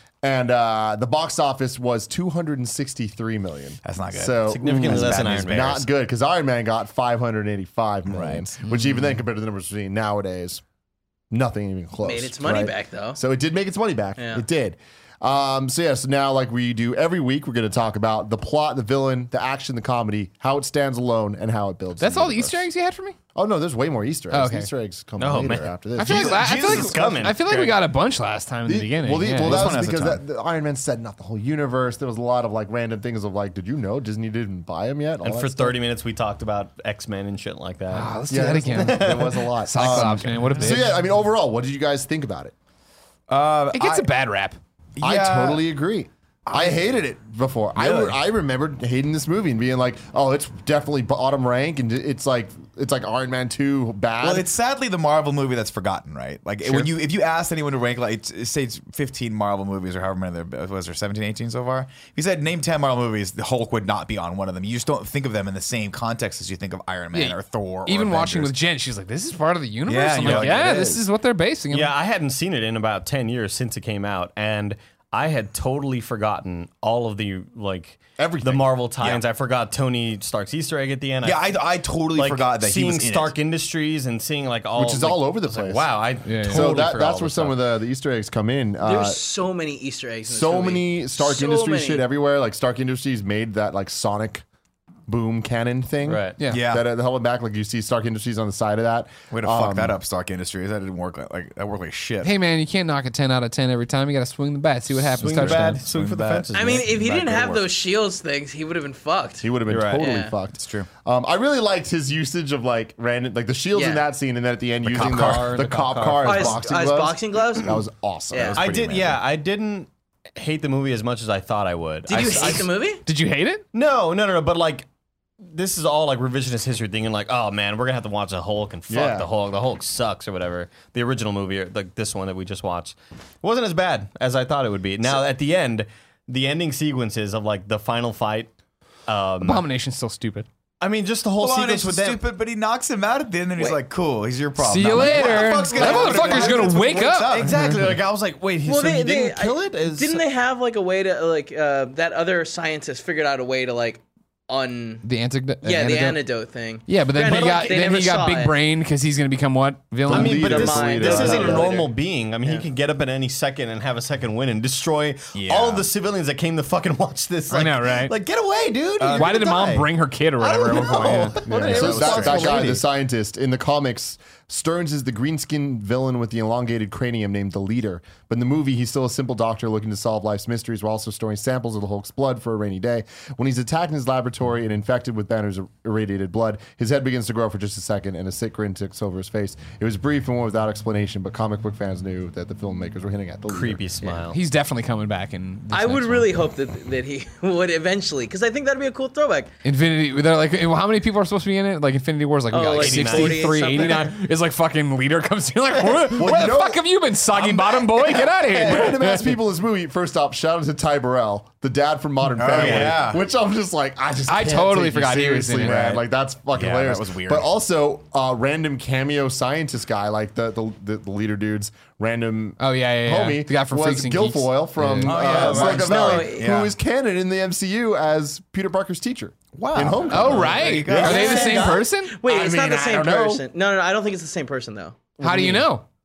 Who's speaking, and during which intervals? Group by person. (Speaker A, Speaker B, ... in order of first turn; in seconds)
Speaker A: 0.2-10.6, 11.3-22.7, 23.3-27.2, 28.6-35.8, 38.3-42.5, 45.0-54.5, 70.2-71.0, 78.2-78.7, 84.8-85.9, 86.5-89.2, 90.3-94.4, 95.1-100.0, 109.4-118.6, 128.9-129.3, 160.1-161.8, 171.4-194.1, 206.1-206.8, 208.1-231.2, 232.2-233.4, 235.2-235.6
Speaker B: 3.8-5.8, 8.1-8.5, 29.3-30.2, 39.8-40.7, 43.3-44.1, 45.0-45.6, 46.5-46.8, 47.8-48.2, 54.2-68.5, 69.9-71.0, 81.2-83.3, 96.5-96.9, 99.3-102.3, 105.2-106.5, 110.5-110.9, 114.8-115.6, 118.5-119.2, 122.3-122.6, 141.4-147.9, 165.3-165.9, 169.0-169.4, 171.7-172.6, 212.3-213.2, 215.6-217.5, 225.0-226.7, 229.5-231.8
Speaker C: 4.5-5.9, 25.2-27.8, 35.2-38.1, 38.7-39.5, 71.7-81.6, 82.1-87.6, 96.0-96.4, 105.1-107.7, 109.7-110.1, 114.9-116.7, 118.5-122.7, 123.7-124.8, 125.4-138.5, 139.1-139.7, 140.8-142.2, 145.0-146.6, 147.3-150.2, 157.3-157.8, 160.1-172.8, 193.5-194.4, 202.8-203.8, 212.5-213.0, 225.4-225.7, 230.6-231.8
Speaker D: 12.0-13.2, 14.2-14.4, 88.8-92.0, 106.5-109.5, 110.0-110.3, 113.7-114.0, 116.2-117.8, 118.3-118.6, 122.0-123.0, 148.6-155.0, 155.6-158.6, 160.4-162.7, 195.7-199.5, 202.5-204.1, 225.3-226.5, 231.5-235.6
Speaker E: 22.0-23.2, 24.3-24.7, 26.0-29.6, 37.9-40.9, 43.7-44.6, 67.1-71.9, 86.2-86.7, 102.2-105.8, 122.2-123.6, 139.4-140.5, 144.6-147.8, 155.0-156.2, 156.8-160.5, 167.5-168.1, 169.1-171.4, 194.3-196.4, 199.6-209.3, 214.3-215.8, 222.6-225.2, 230.1-232.2, 235.2-235.8